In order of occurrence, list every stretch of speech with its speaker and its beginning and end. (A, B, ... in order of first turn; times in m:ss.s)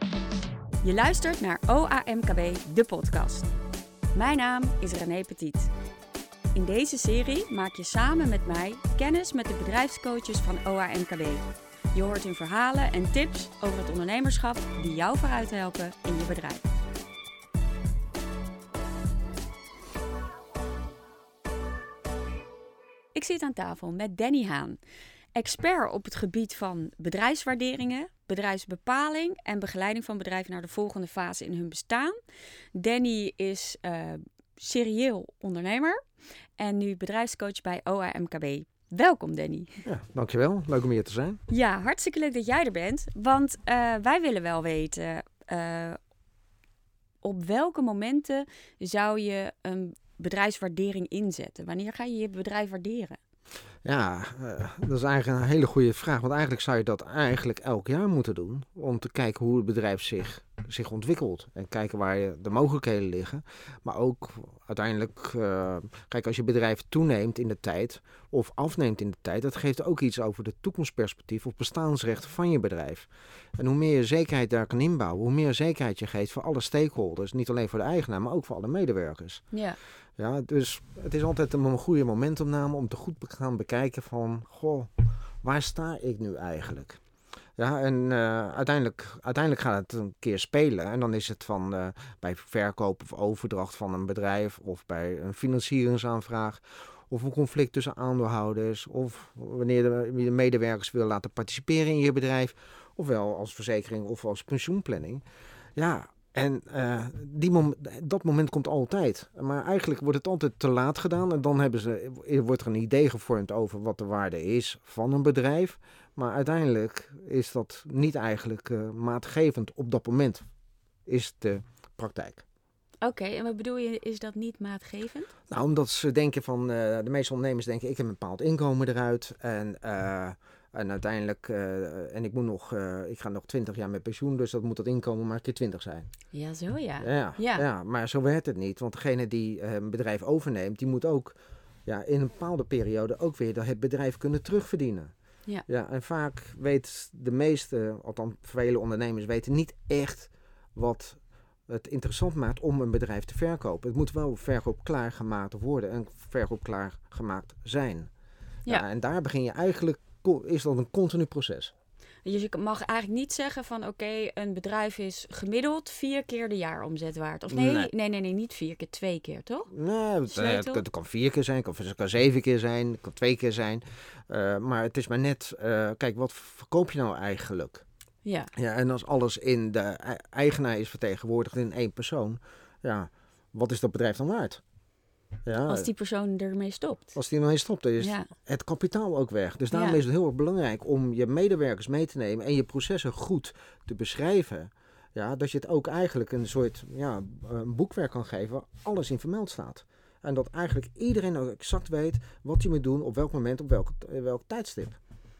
0:00.8-0:03.5 A
0:04.1-0:05.7 A
0:06.5-0:16.7 A
0:23.1-0:24.8 A
0:25.3-0:32.2 A
0:32.7-0:36.0 A
0:36.6-0:39.8 A
0:39.8-0:41.4 B
0:41.5-0:46.0 A
0:47.2-0:53.2 A
0:53.8-1:19.4 B
1:19.5-1:19.8 A
1:20.2-1:24.9 B
1:25.4-1:27.0 B
1:27.6-1:45.2 B
1:45.8-2:00.4 B
2:01.0-2:02.4 B
2:03.0-2:05.3 A
2:05.5-2:16.1 B
2:16.3-2:17.6 A
2:17.0-2:25.1 B
2:25.7-2:38.1 B
2:38.7-2:41.7 B
2:42.2-2:49.7 A
2:47.5-2:47.9 B
2:49.7-2:57.8 B
2:50.2-2:50.8 A
2:58.2-2:58.5 A
2:58.5-3:04.6 B
3:05.4-3:05.9 B
3:05.7-3:07.1 A
3:07.1-3:25.0 B
3:08.0-3:08.3 A
3:09.7-3:10.0 A